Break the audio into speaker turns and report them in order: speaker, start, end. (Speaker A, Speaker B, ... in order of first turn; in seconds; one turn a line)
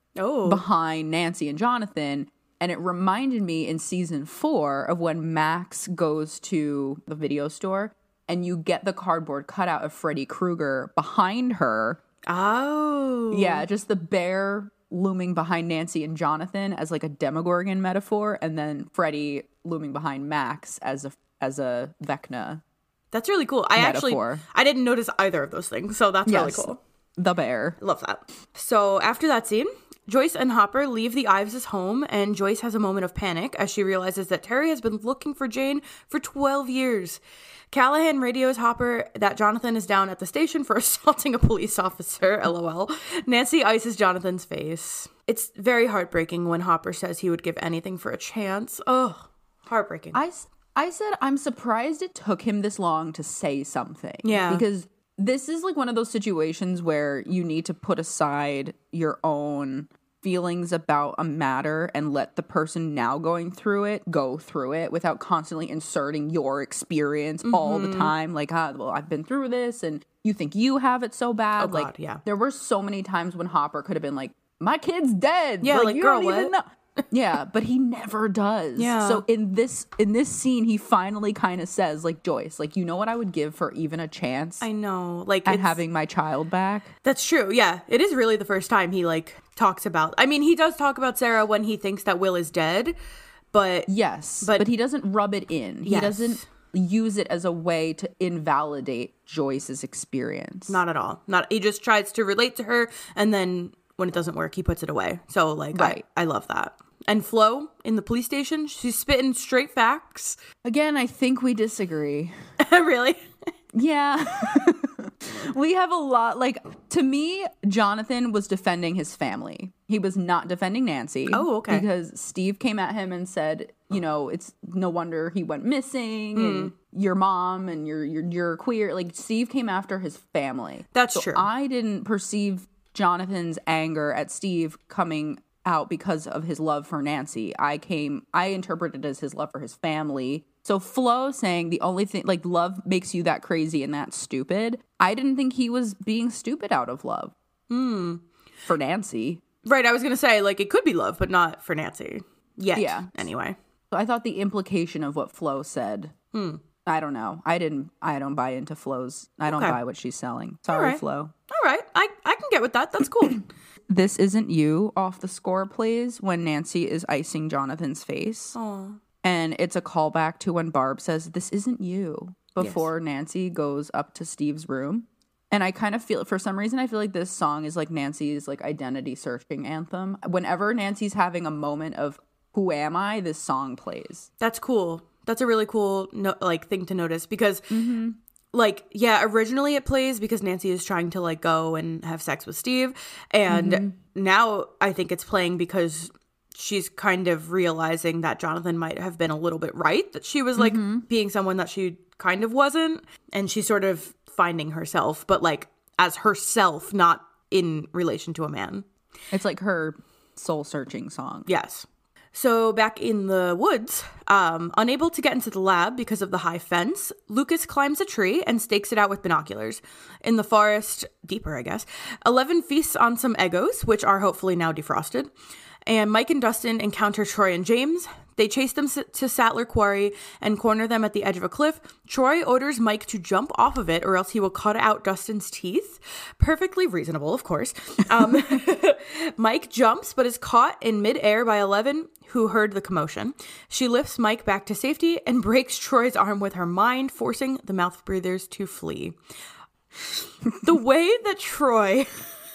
Speaker A: 0.2-0.6
Speaker B: 0.5-12.0
Speaker A: 12.3-13.6
Speaker B: 13.3-22.6
Speaker A: 23.1-26.8
Speaker B: 23.8-24.4
Speaker B: 26.2-27.8
Speaker A: 27.8-37.2
Speaker A: 37.7-50.2
Speaker B: 50.1-84.7
Speaker A: 54.2-54.6
Speaker A: 67.4-68.1
Speaker A: 71.6-72.2
Speaker A: 75.6-76.5
Speaker A: 78.8-79.2
Speaker A: 84.6-85.8
Speaker B: 85.4-86.9
Speaker A: 87.0-92.9
Speaker A: 93.5-93.9
Speaker B: 93.9-100.8
Speaker A: 94.4-94.7
Speaker A: 95.8-96.4
Speaker A: 100.7-110.4
Speaker B: 105.7-106.0
Speaker B: 110.6-112.3
Speaker A: 112.6-113.2
Speaker B: 113.7-147.3
Speaker A: 121.3-121.8
Speaker A: 126.3-126.7
Speaker A: 130.9-131.4
Speaker A: 147.7-148.2
Speaker B: 148.7-149.4
Speaker A: 149.6-153.6
Speaker B: 152.7-153.2
Speaker B: 153.9-156.1
Speaker A: 156.3-156.6
Speaker B: 156.8-161.3
Speaker A: 159.5-159.8
Speaker A: 160.7-163.4
Speaker B: 163.9-168.6
Speaker A: 168.5-169.0
Speaker B: 169.2-184.3
Speaker A: 172.6-172.9
Speaker A: 184.4-187.8
Speaker B: 187.7-188.2
Speaker A: 188.5-208.8
Speaker B: 193.5-193.9
Speaker B: 200.6-201.0
Speaker B: 209.3-211.5
Speaker A: 211.4-225.3
Speaker A: 225.9-249.2
Speaker A: 250.6-252.1